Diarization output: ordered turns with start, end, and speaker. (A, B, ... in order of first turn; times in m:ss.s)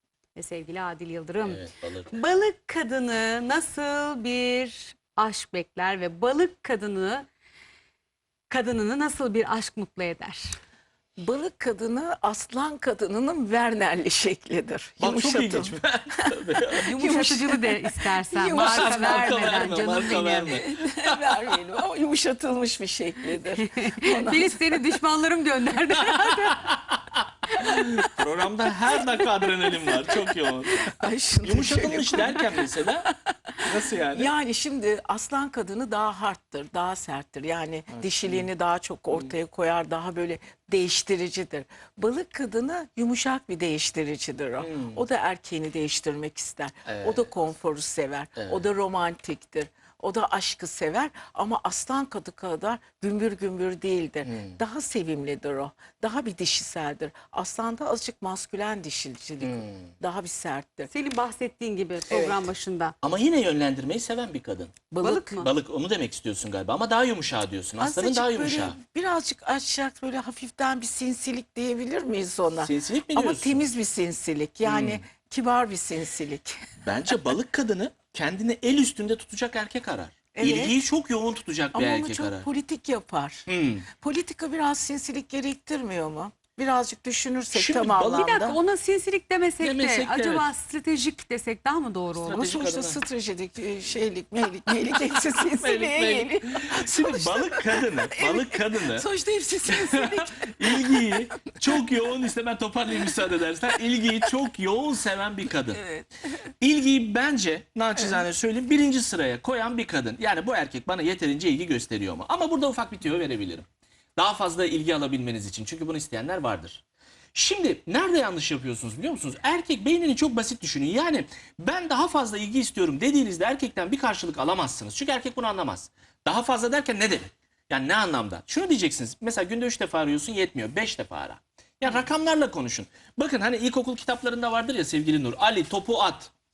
0:00.3-0:07.3 A
0:01.4-0:02.1 B
0:08.5-0:10.6 A
0:11.2-0:25.0 C
0:15.0-0:16.8 B
0:16.8-0:20.0 A
0:18.5-0:21.6 B
0:23.6-0:26.6 A
0:26.3-0:34.3 B
0:27.6-0:27.8 A
0:29.9-0:30.2 C
0:30.8-0:33.6 C
0:34.1-1:00.9 C
0:37.9-0:38.5 B
0:44.6-0:45.0 B
0:46.9-0:47.3 B
0:48.4-0:48.6 B
0:54.2-0:54.6 B
0:59.4-0:59.9 B
1:00.9-1:02.9 A
1:02.1-1:02.4 C
1:03.0-1:08.8 B
1:04.9-1:05.4 C
1:05.0-1:05.5 A
1:07.8-1:16.7 C
1:12.6-1:13.6 B
1:14.6-1:15.0 B
1:16.8-1:22.5 B
1:20.3-1:20.8 C
1:21.7-1:28.6 C
1:23.5-1:23.8 B
1:27.5-1:28.4 B
1:28.1-1:32.4 A
1:29.6-1:30.5 B
1:32.1-1:33.0 B
1:32.3-1:41.6 C
1:35.0-1:39.0 B
1:39.6-1:45.8 B
1:45.7-1:46.1 C
1:46.6-1:53.6 B
1:54.2-1:56.8 B
1:57.3-2:16.3 B